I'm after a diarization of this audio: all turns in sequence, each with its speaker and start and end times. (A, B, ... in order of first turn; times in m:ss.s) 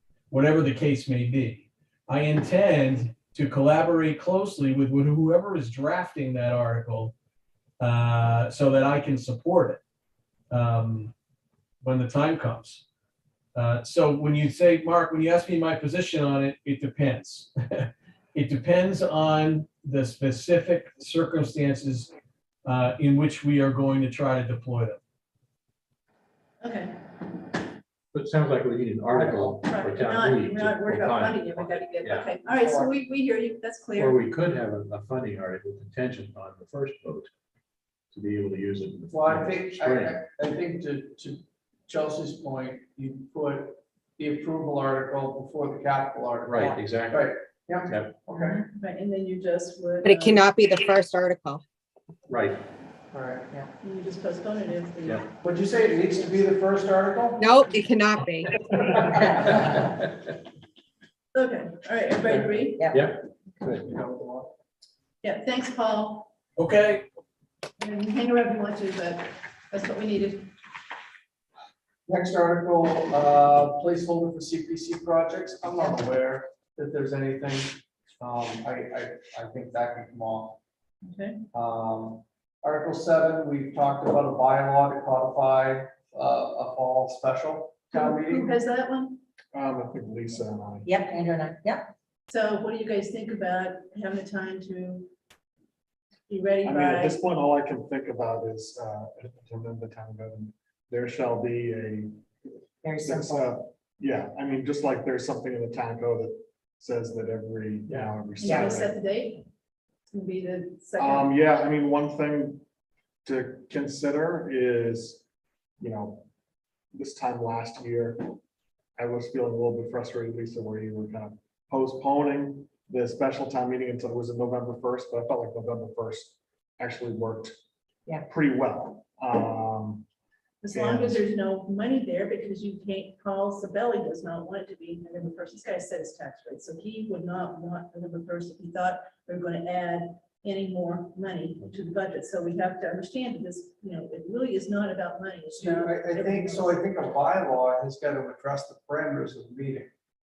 0:00.3-0:07.1 A
0:07.8-0:09.8 A
0:10.5-0:11.1 A
0:11.8-0:12.8 A
0:13.6-0:22.1 A
0:22.6-0:25.0 A
0:26.6-0:26.9 B
0:28.1-0:32.4 C
0:29.2-0:29.5 D
0:29.6-0:34.2 B
0:32.6-0:32.9 D
0:34.0-0:37.3 C
0:38.1-0:40.2 C
0:39.1-0:48.6 D
0:46.5-0:47.3 C
0:47.9-0:48.2 C
0:48.3-0:50.7 B
0:50.2-0:51.6 E
0:52.3-0:52.6 C
0:53.1-0:53.4 D
0:53.8-0:55.3 B
0:55.4-0:57.4 D
0:57.4-0:58.5 E
0:59.1-0:59.6 F
1:01.3-1:02.8 B
1:02.2-1:02.5 D
1:02.9-1:04.0 C
1:03.9-1:04.5 D
1:05.2-1:06.3 B
1:06.6-1:07.1 A
1:07.8-1:10.5 B
1:12.1-1:20.6 D
1:21.0-1:21.4 B
1:21.5-1:28.5 D
1:27.9-1:29.2 B
1:29.5-1:30.9 G
1:30.8-1:31.9 F
1:32.3-1:35.1 B
1:36.3-1:37.2 B
1:36.6-1:42.3 G
1:42.8-1:43.6 F
1:43.0-1:48.9 G
1:48.4-1:49.5 B
1:48.4-1:48.8 F
1:50.1-1:51.3 B
1:51.0-1:52.6 G
1:53.2-1:55.2 G
1:55.8-1:56.3 G
1:56.9-1:58.4 G
1:59.0-2:07.6 G
2:08.2-2:10.0 G
2:10.6-2:26.8 B
2:10.7-2:11.2 G
2:25.5-2:29.9 D